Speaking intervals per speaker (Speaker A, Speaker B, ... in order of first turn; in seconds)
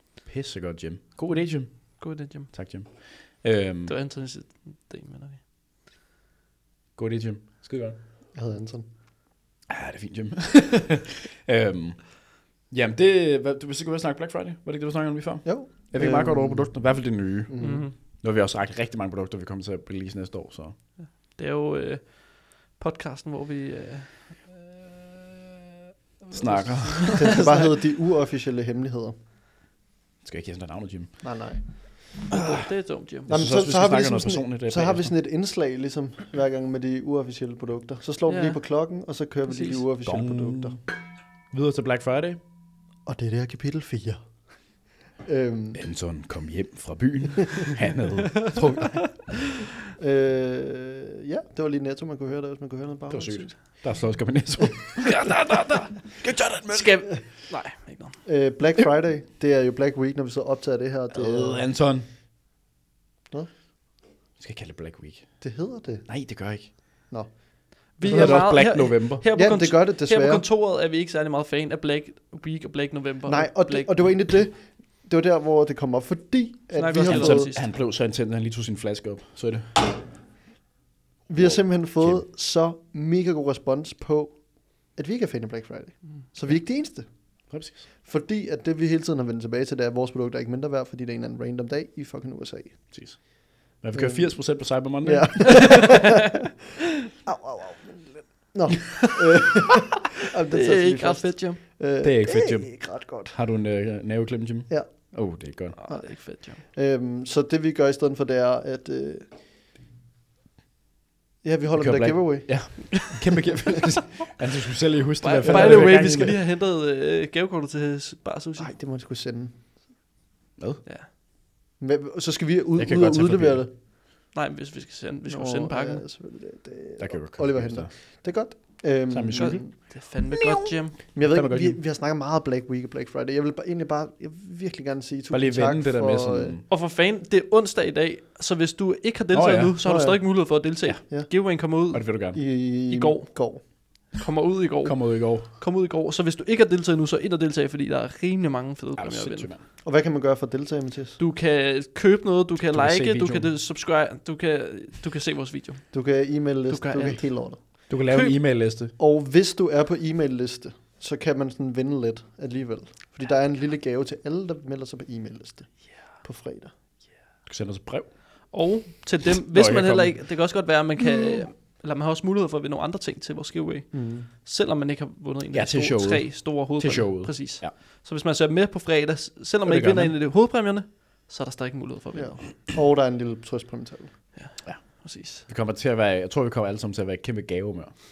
Speaker A: 0.2-3.9, 7.0-8.0, 9.7-20.8, 26.3-27.4, 30.2-31.2, 32.3-32.6, 33.3-35.1, 40.0-40.8, 41.5-42.4, 45.8-49.2, 53.1-55.5, 56.2-57.0, 61.1-62.1, 64.4-65.4, 66.1-66.7, 68.0-69.2, 77.0-79.9, 81.4-82.2, 87.5-87.8, 92.9-95.9, 102.0-105.8, 111.8-116.4, 120.6-120.8, 122.8-123.7, 127.0-127.9, 129.1-131.8, 135.3-136.7, 139.3-139.8, 141.9-142.4, 144.8-145.5, 149.0-149.6, 152.6-153.5, 157.9-158.9, 167.5-168.1, 169.5-170.2, 175.5-177.7, 179.7-180.2, 184.6-187.9
Speaker B: 2.0-2.5, 3.9-5.4, 17.6-17.9, 21.3-24.6, 26.3-27.7, 32.3-33.3, 38.3-38.6, 39.5-39.8, 55.0-58.2, 68.0-74.2, 76.7-77.7, 95.5-96.0, 100.5-101.6, 105.8-106.6, 115.2-118.7, 124.3-126.0, 129.4-131.0, 136.7-142.2, 142.9-143.5, 144.1-149.5, 151.2-155.9, 156.7-158.4, 168.5-182.5, 184.3-185.4
Speaker C: 8.3-8.9, 15.4-17.9, 27.1-29.1, 31.2-31.8, 33.3-40.8, 43.1-44.2, 45.2-45.8, 50.0-53.5, 58.2-61.7, 65.4-66.1, 67.1-68.7, 69.2-70.5, 73.2-77.5, 81.3-87.1, 88.0-93.0, 93.9-96.3, 97.1-103.3, 104.7-105.1, 105.9-109.3, 111.4-112.8, 115.4-116.3, 118.6-119.6, 121.8-123.7, 125.3-129.7, 131.1-136.6, 139.8-140.6, 142.3-143.6, 149.8-151.2, 155.9-157.6, 159.0-166.7, 173.9-174.3, 182.2-184.2